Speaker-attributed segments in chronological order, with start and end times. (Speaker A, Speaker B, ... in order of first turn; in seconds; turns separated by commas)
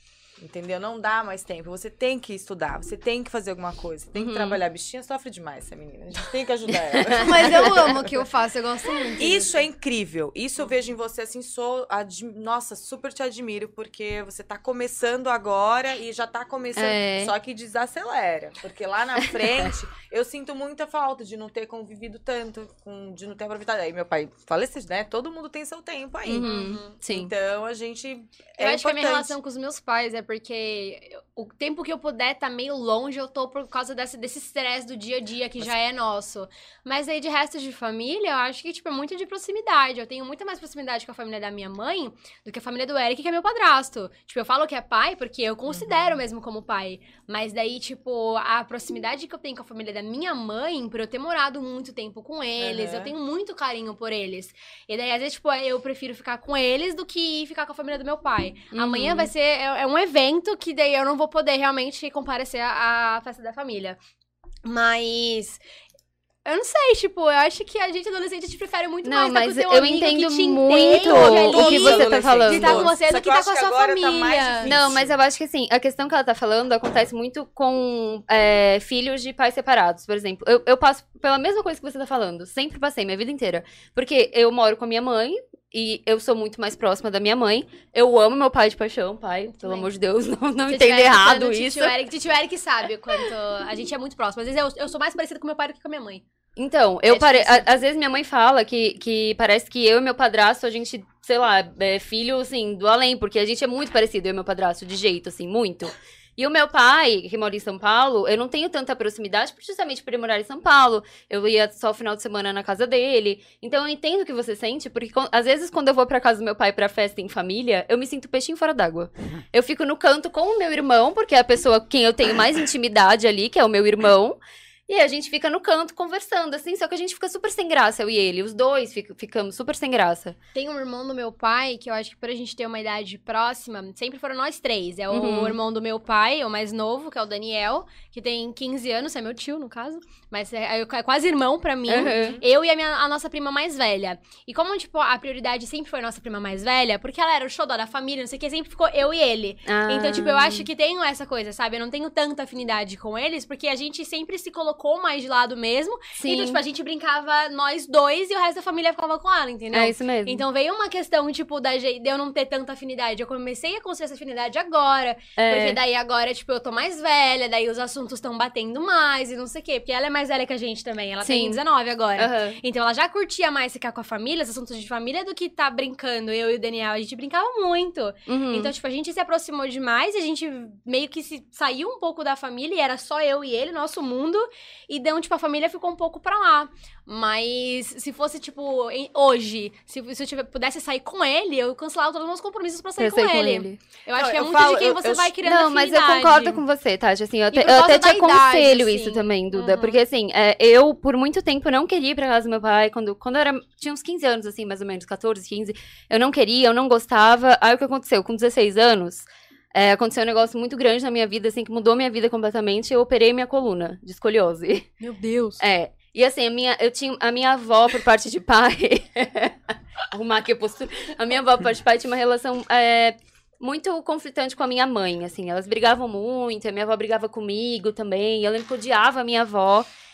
Speaker A: 0.4-8.0, Speaker B: 4.1-4.6, Speaker B: 7.0-7.7, Speaker C: 7.1-9.7, Speaker A: 9.2-29.4, Speaker B: 16.8-17.3, Speaker B: 26.3-27.3, Speaker C: 26.4-26.9, Speaker C: 28.6-64.0, Speaker A: 45.7-46.2, Speaker A: 52.6-53.1, Speaker B: 58.7-59.3, Speaker C: 64.6-65.6, Speaker C: 66.4-74.7, Speaker B: 69.0-72.9, Speaker A: 71.0-75.2, Speaker B: 74.6-92.0, Speaker C: 89.5-90.0, Speaker C: 90.7-96.2, Speaker B: 96.6-130.3, Speaker C: 97.0-97.7, Speaker A: 97.3-97.6, Speaker C: 130.5-196.6, Speaker B: 135.1-135.6, Speaker B: 141.9-142.4, Speaker B: 149.7-150.7, Speaker B: 156.2-156.6, Speaker B: 159.7-160.4, Speaker B: 165.4-165.8, Speaker B: 171.2-171.6, Speaker B: 172.2-172.6, Speaker B: 178.3-178.7, Speaker B: 193.0-193.8, Speaker A: 194.2-195.4, Speaker B: 195.4-214.9, Speaker C: 197.5-200.0, Speaker C: 215.0-215.6, Speaker B: 215.6-229.9